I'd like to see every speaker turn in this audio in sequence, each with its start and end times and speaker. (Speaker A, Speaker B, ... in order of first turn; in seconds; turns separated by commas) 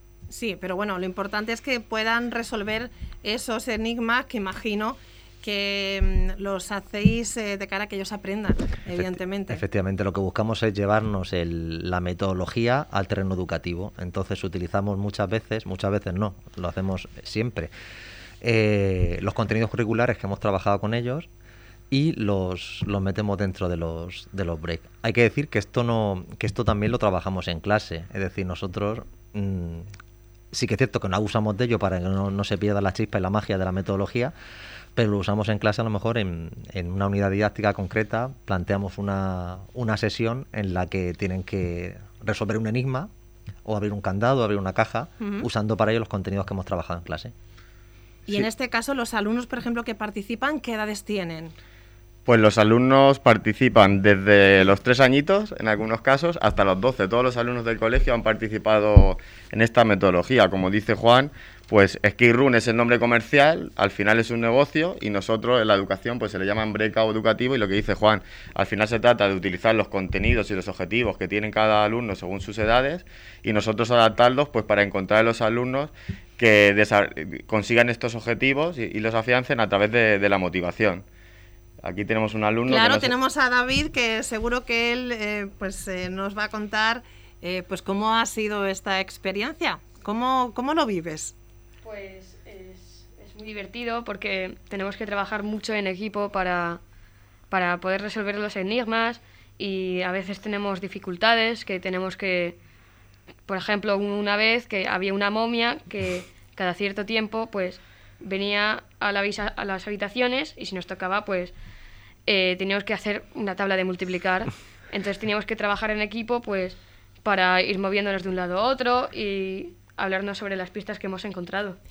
Speaker A: 0.3-9.6, Speaker B: 9.0-17.7, Speaker B: 18.4-21.3, Speaker B: 21.9-29.9, Speaker B: 30.5-34.3, Speaker B: 35.0-43.1, Speaker B: 43.6-47.3, Speaker A: 45.2-45.5, Speaker A: 48.3-51.5, Speaker C: 52.3-81.0, Speaker C: 81.8-83.1, Speaker A: 82.7-91.3, Speaker D: 91.8-96.8, Speaker D: 97.5-102.6, Speaker D: 103.5-111.5, Speaker D: 112.3-121.8